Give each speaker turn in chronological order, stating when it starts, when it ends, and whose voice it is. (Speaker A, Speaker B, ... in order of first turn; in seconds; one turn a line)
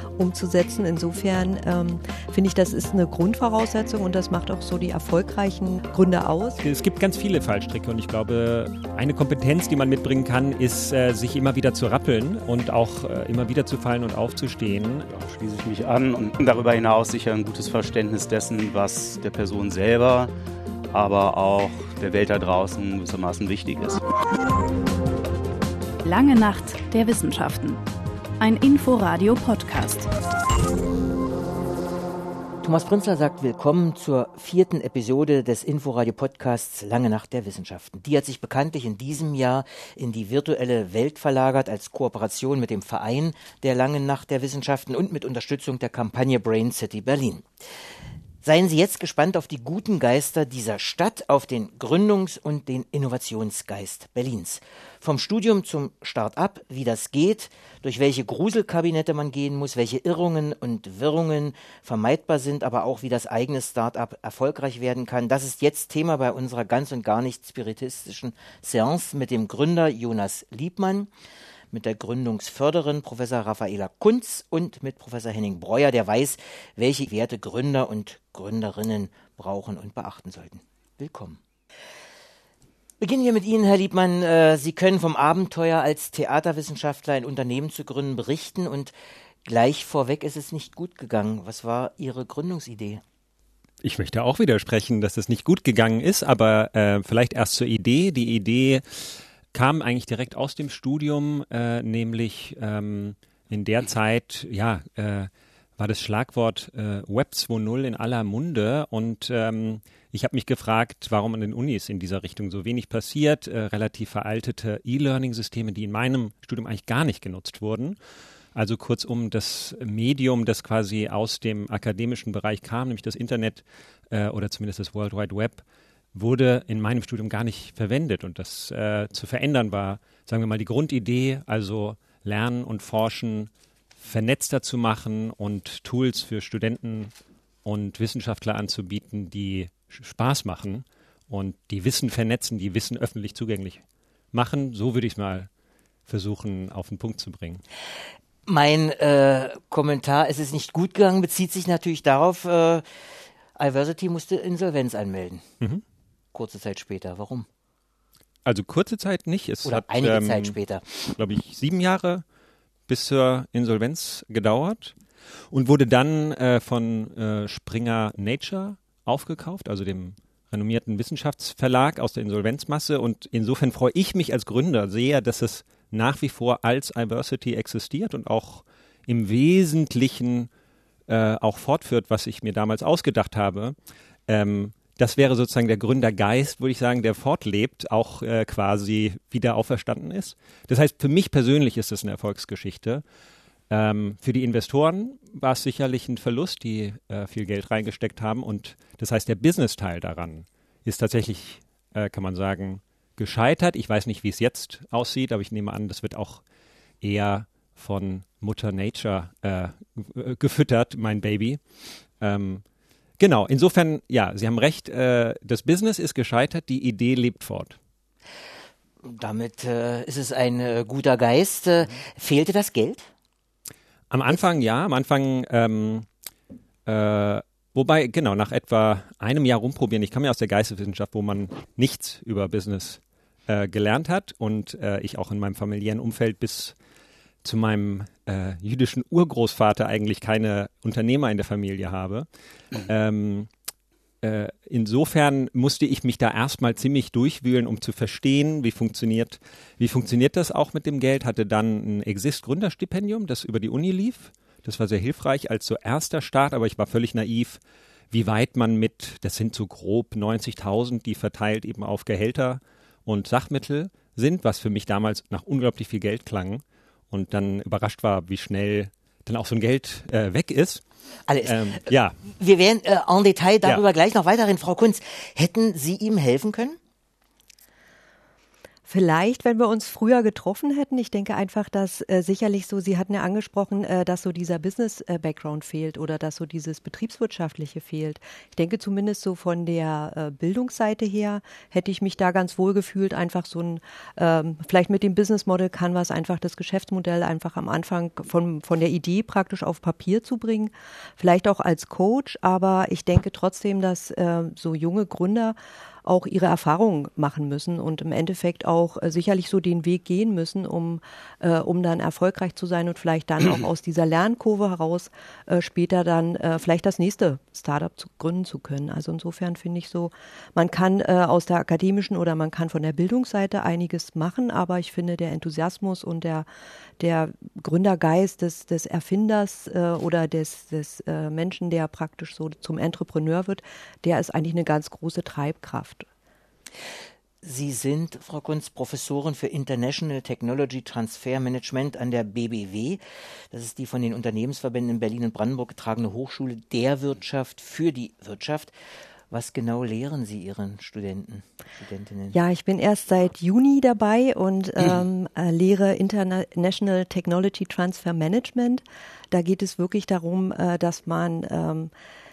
Speaker A: 0.2-6.6
Speaker B: 6.6-15.1
Speaker C: 15.1-20.3
Speaker C: 20.9-24.0
Speaker D: 26.0-27.8
Speaker D: 28.4-30.1
Speaker E: 32.6-47.5
Speaker E: 48.4-71.1
Speaker E: 71.7-81.4
Speaker E: 83.0-88.9
Speaker E: 89.5-93.0
Speaker B: 93.8-118.0
Speaker B: 118.5-137.1
Speaker B: 137.7-143.8
Speaker B: 144.3-145.5
Speaker B: 146.1-147.6
Speaker E: 148.5-152.8
Speaker E: 153.6-155.4
Speaker E: 156.3-157.5
Speaker B: 158.4-160.6
Speaker E: 159.7-161.1
Speaker B: 161.2-162.2
Speaker B: 162.9-165.0
Speaker B: 165.5-180.5
Speaker B: 181.1-183.8
Speaker B: 184.3-193.0
Speaker B: 193.7-206.4
Speaker B: 207.0-211.6
Speaker B: 212.2-212.6
Speaker B: 213.2-217.8
Speaker E: 219.0-223.1
Speaker B: 224.1-226.1
Speaker B: 226.9-236.8
Speaker B: 237.4-242.3
Speaker B: 242.8-243.5
Speaker B: 244.2-257.6
Speaker B: 258.1-270.8
Speaker E: 271.3-276.8
Speaker B: 271.4-272.2
Speaker A: 278.9-326.4
Speaker A: 327.0-336.1
Speaker E: 337.4-348.7
Speaker E: 349.3-352.3
Speaker A: 352.3-361.9